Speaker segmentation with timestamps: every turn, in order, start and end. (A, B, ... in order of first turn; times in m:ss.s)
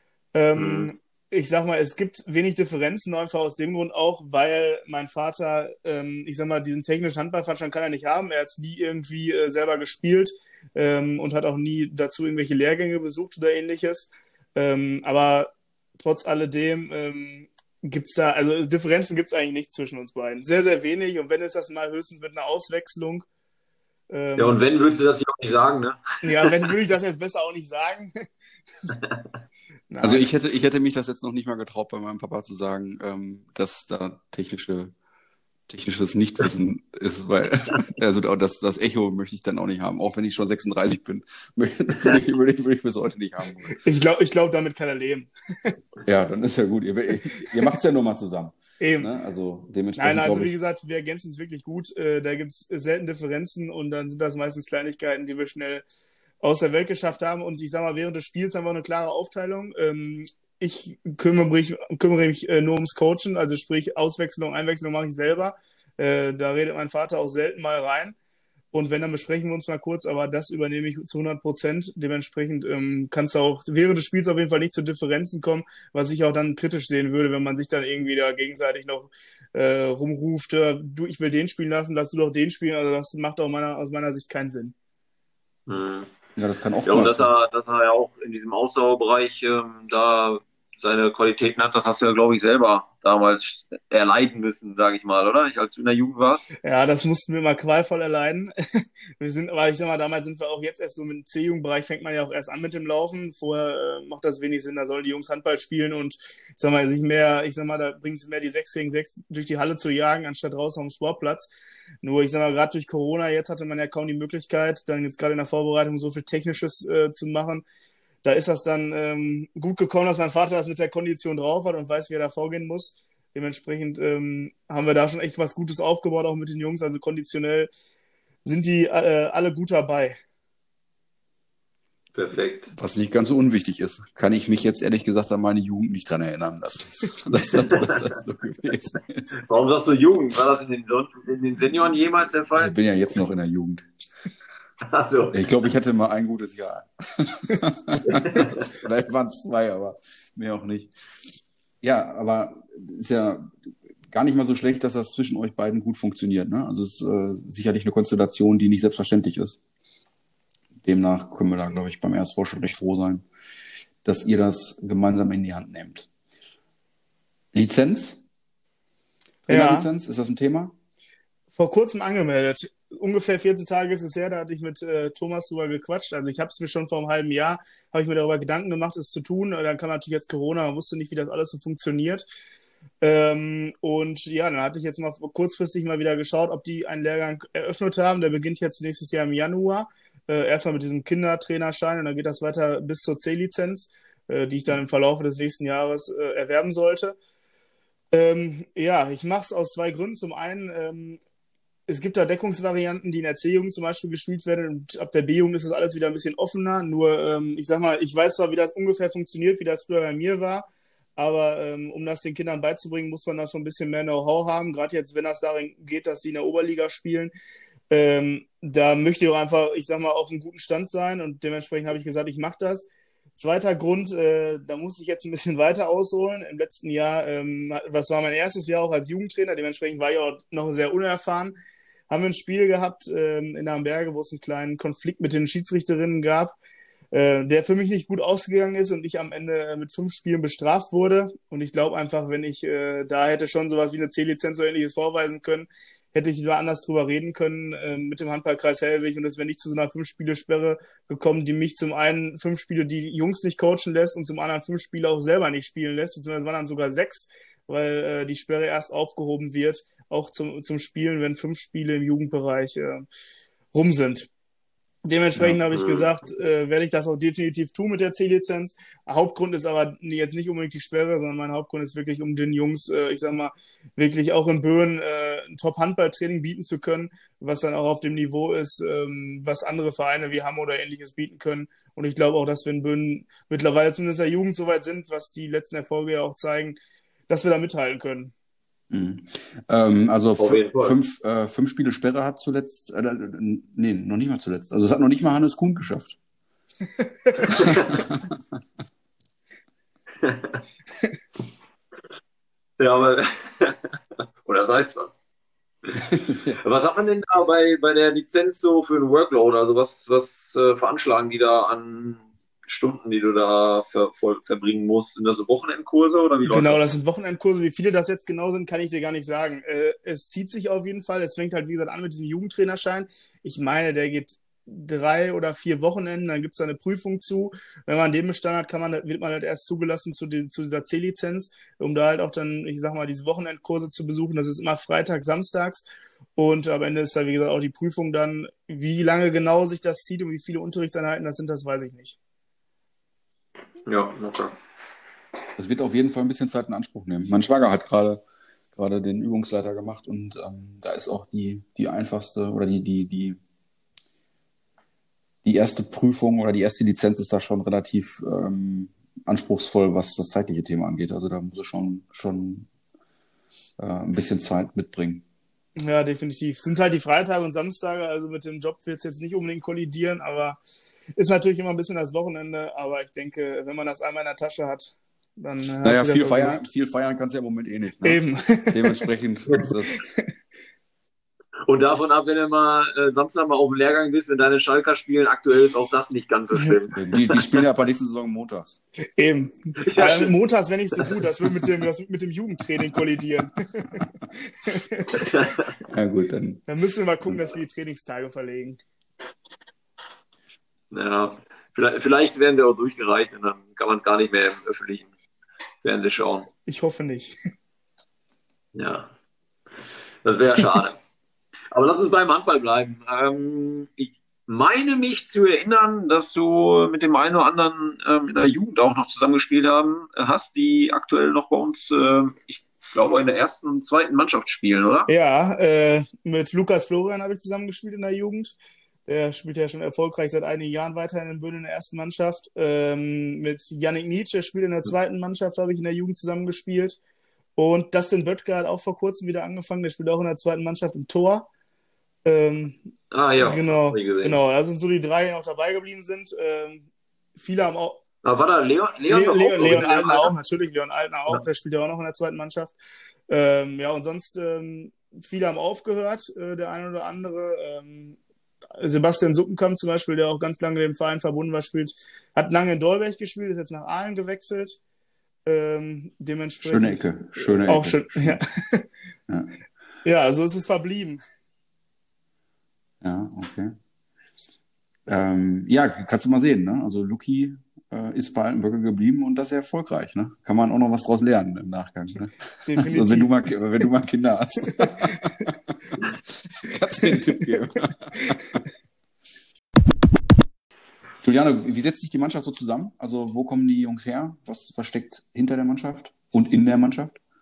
0:00.3-0:23.2 A
0:00.6-0:00.9 B
0:24.1-0:24.6 A
0:24.4-0:26.5 B
0:26.2-0:28.2 A
0:29.9-0:30.3 A
0:30.0-0:34.9 C
0:35.7-0:43.7 C
0:43.8-0:45.7 A
0:46.0-0:50.5 C
0:48.8-0:49.1 A
0:50.0-0:55.8 A
0:56.4-1:08.2 A
1:08.7-1:24.7 A
1:25.7-1:26.1 B
1:26.4-1:27.3 C
1:26.8-1:36.5 B
1:36.6-1:38.5 A
1:39.2-1:51.5 A
1:52.0-1:57.6 A
1:58.2-2:07.7 A
2:08.4-2:10.2 A
2:12.1-2:12.7 B
2:12.7-2:19.4 C
2:17.4-2:18.0 B
2:19.4-2:22.8 B
2:22.5-2:23.8 C
2:24.9-2:25.5 B
2:25.3-2:30.9 C
2:28.0-2:28.7 B
2:31.8-2:33.5 C
2:34.1-2:39.6 C
2:40.8-2:43.2 C
2:44.0-2:46.1 C
2:47.5-2:48.2 C
2:49.5-2:49.9 A
2:49.5-2:50.7 C
2:51.5-3:02.3 A
3:03.0-3:17.2 A
3:18.1-3:21.2 A
3:21.9-3:37.3 A
3:37.9-3:51.6 A
3:52.1-3:56.5 A
3:57.1-4:23.1 A
4:23.7-4:24.3 A
4:25.0-4:46.8 A
4:25.7-4:26.1 B
4:47.3-4:48.3 A
4:48.9-4:56.2 C
4:50.4-4:51.0 B
4:57.3-4:57.7 A
4:57.5-4:58.0 B
4:57.5-4:58.2 C
5:00.2-5:00.6 B
5:02.8-5:05.2 B
5:06.0-5:06.6 C
5:06.6-5:16.9 B
5:16.4-5:35.8 A
5:36.4-5:42.2 A
5:43.8-5:44.6 B
5:45.6-5:48.2 C
5:48.7-5:53.4 C
5:55.4-6:02.7 C
6:03.8-6:05.2 C
6:05.8-6:10.6 A
6:11.2-6:16.6 A
6:15.8-6:20.0 C
6:18.0-6:19.0 A
6:20.0-6:20.3 A
6:21.6-6:27.0 B
6:27.0-6:28.8 C
6:29.2-6:35.3 A
6:29.8-6:30.3 B
6:35.2-6:35.7 B
6:35.9-6:36.6 C
6:36.7-6:38.8 A
6:40.9-6:45.1 B
6:45.8-6:46.5 B
6:46.6-6:47.3 A
6:48.7-6:49.1 B
6:50.2-6:51.0 B
6:51.7-7:05.1 B
7:05.1-7:17.0 A
7:17.6-7:21.5 A
7:22.2-7:22.8 A
7:23.1-7:24.4 B
7:23.4-7:28.0 A
7:28.2-7:30.3 B
7:29.1-7:32.7 A
7:33.3-7:38.2 A
7:38.8-7:44.8 A
7:45.4-7:48.8 A
7:46.6-7:48.4 C
7:49.3-7:49.5 C
7:50.0-7:51.2 A
7:53.0-7:53.7 C
7:55.1-8:06.0 C
8:02.6-8:03.4 A
8:04.7-8:05.3 A
8:06.6-8:08.6 C
8:06.9-8:07.4 A
8:11.2-8:17.1 C